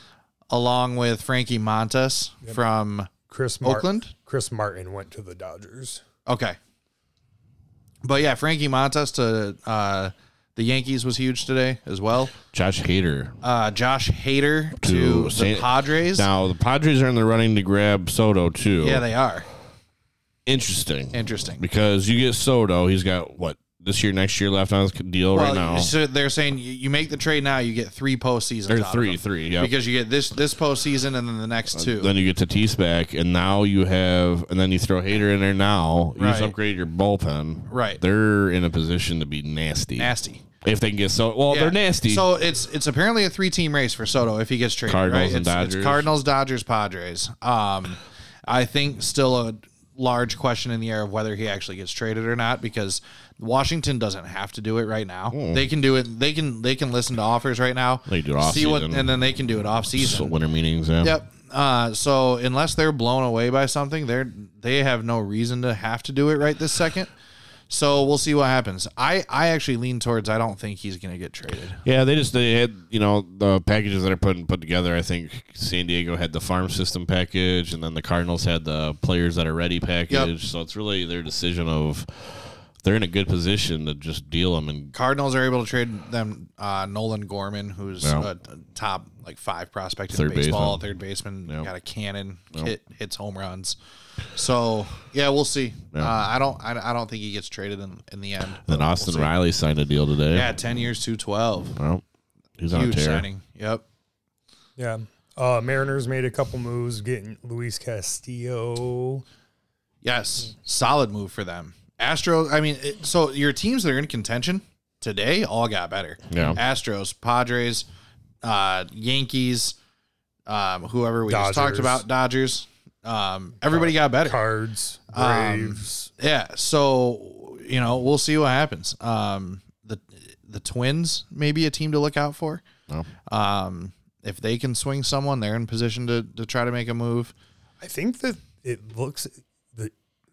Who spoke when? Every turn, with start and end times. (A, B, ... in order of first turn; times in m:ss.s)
0:00.5-0:03.1 A
0:03.3-0:06.0 B
0:03.6-0:04.1 A
0:06.3-0:06.6 A
0:08.0-0:12.4 A
0:12.5-0:13.4 C
0:13.4-0:16.3 A
0:14.8-0:19.0 C
0:18.8-0:19.5 A
0:20.5-0:25.9 C
0:21.1-0:21.6 A
0:25.3-0:32.1 A
0:28.7-0:29.7 C
0:31.7-0:42.2 C
0:36.2-0:36.5 A
0:37.7-0:38.0 A
0:40.0-0:40.4 A
0:41.5-1:00.3 A
0:44.9-0:46.1 C
0:55.3-0:55.7 C
0:58.1-0:59.1 C
1:00.0-1:01.2 C
1:01.0-1:07.1 A
1:07.7-1:11.8 A
1:11.8-1:24.9 C
1:24.9-1:33.8 A
1:28.0-1:28.3 C
1:30.1-1:30.8 C
1:34.3-1:39.3 A
1:38.6-1:40.5 C
1:40.3-1:41.8 A
1:41.8-1:42.0 C
1:42.6-1:43.2 C
1:42.7-1:43.8 A
1:44.8-1:49.2 B
1:50.0-1:57.9 A
1:56.3-1:56.6 C
1:58.4-1:59.8 A
2:00.5-2:04.4 A
2:01.3-2:02.0 B
2:03.7-2:06.1 B
2:05.1-2:12.6 A
2:13.3-2:17.3 A
2:17.8-2:19.9 B